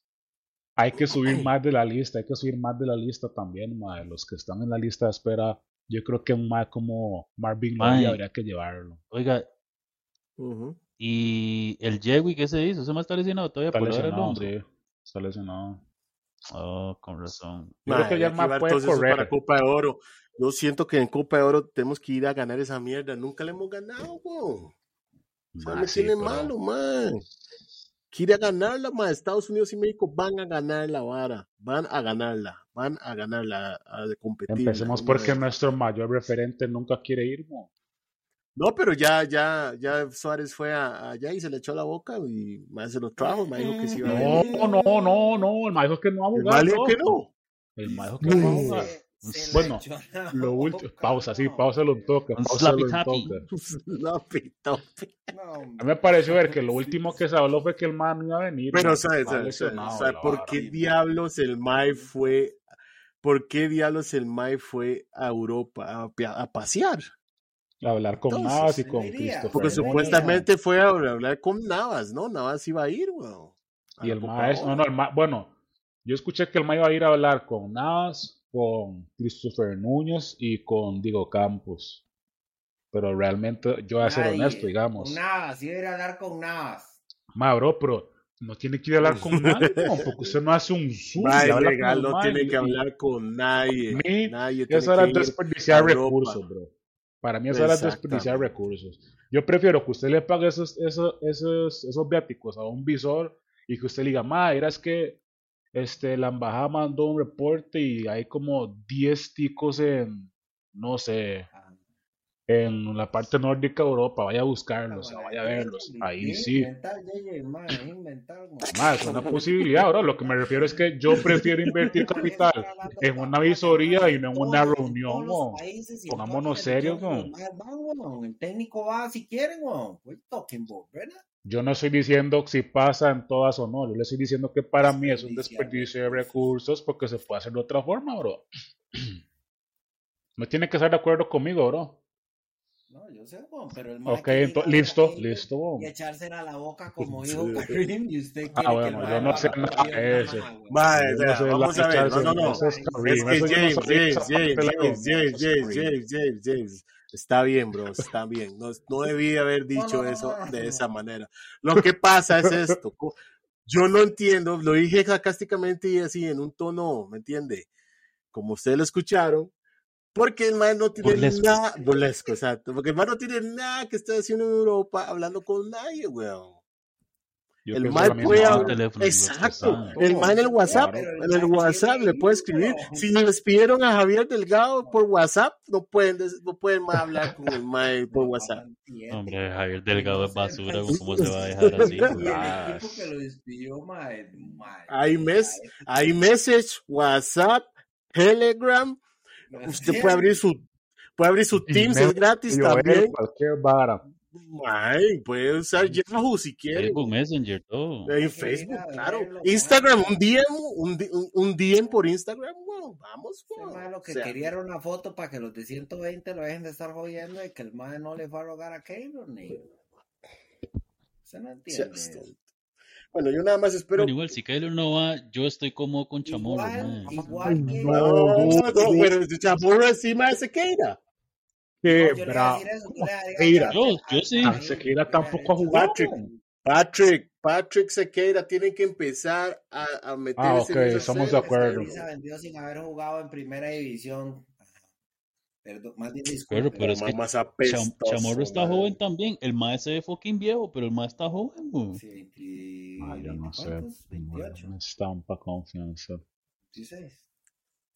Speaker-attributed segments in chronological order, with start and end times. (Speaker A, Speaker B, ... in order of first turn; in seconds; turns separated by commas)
Speaker A: 0.8-9.0, Speaker B: 1.1-1.5, Speaker C: 7.8-8.2, Speaker C: 9.1-9.5, Speaker B: 10.4-10.8, Speaker C: 11.0-14.5, Speaker A: 13.7-15.8, Speaker C: 16.5-17.9, Speaker B: 17.9-24.7, Speaker A: 17.9-19.3, Speaker A: 25.5-26.5, Speaker B: 25.6-27.2, Speaker B: 28.1-35.4, Speaker A: 34.5-37.7, Speaker B: 38.5-44.8, Speaker D: 43.2-45.5, Speaker A: 44.0-47.1, Speaker B: 46.3-47.3, Speaker A: 47.8-48.9, Speaker D: 47.8-52.1, Speaker B: 48.2-48.9, Speaker C: 49.2-49.7, Speaker A: 49.5-53.5, Speaker C: 52.4-53.4, Speaker B: 53.5-55.3, Speaker D: 55.3-57.1, Speaker A: 55.8-60.6, Speaker B: 58.7-62.6, Speaker D: 59.8-61.0, Speaker B: 63.2-67.1, Speaker A: 67.8-70.3, Speaker B: 68.3-68.8, Speaker D: 68.8-70.5, Speaker B: 69.5-74.8, Speaker A: 74.0-75.5, Speaker A: 76.0-82.0, Speaker A: 82.9-85.2, Speaker D: 84.0-87.0, Speaker A: 87.3-92.8, Speaker B: 89.0-90.3, Speaker B: 91.2-96.4, Speaker A: 93.9-105.2, Speaker B: 97.5-98.5, Speaker A: 105.7-111.5, Speaker D: 111.5-111.8, Speaker A: 112.5-116.7, Speaker D: 114.9-120.3, Speaker A: 118.7-127.3, Speaker B: 118.8-119.4, Speaker B: 121.2-122.1, Speaker D: 122.0-131.2, Speaker A: 131.4-139.1, Speaker D: 134.8-136.5, Speaker A: 140.4-142.0, Speaker D: 142.9-150.8, Speaker A: 144.1-145.9, Speaker B: 147.3-147.8, Speaker A: 148.6-155.9, Speaker B: 149.0-149.6, Speaker B: 150.7-167.7, Speaker D: 151.9-154.6, Speaker D: 159.8-160.8, Speaker A: 162.4-162.7, Speaker B: 168.3-169.5, Speaker B: 170.1-176.6, Speaker C: 171.0-171.6, Speaker A: 177.7-178.8, Speaker B: 177.7-188.6, Speaker C: 177.9-179.9, Speaker A: 179.6-181.1, Speaker D: 179.9-183.1, Speaker D: 188.1-189.4, Speaker C: 189.1-192.3, Speaker D: 189.9-195.9, Speaker B: 190.9-192.2, Speaker A: 192.1-193.1, Speaker B: 194.9-199.0, Speaker D: 199.5-200.4, Speaker B: 199.5-200.6, Speaker B: 201.2-203.1, Speaker A: 201.7-204.0, Speaker B: 204.3-207.1, Speaker C: 206.7-208.1, Speaker B: 208.1-214.3, Speaker D: 208.2-210.1, Speaker D: 213.5-219.7, Speaker D: 221.2-222.2, Speaker B: 221.7-222.3, Speaker B: 223.1-224.1, Speaker C: 223.9-227.9, Speaker D: 226.2-228.9, Speaker A: 227.0-229.1, Speaker B: 227.9-231.0, Speaker A: 231.8-233.8, Speaker D: 231.9-236.2, Speaker C: 233.7-234.6, Speaker A: 234.4-236.3, Speaker B: 235.7-236.1, Speaker B: 236.6-242.1, Speaker A: 240.4-241.9, Speaker D: 240.8-244.6, Speaker D: 245.6-247.0, Speaker C: 246.5-252.0, Speaker B: 246.8-249.0, Speaker D: 251.9-254.7, Speaker A: 253.0-256.2, Speaker D: 256.7-257.2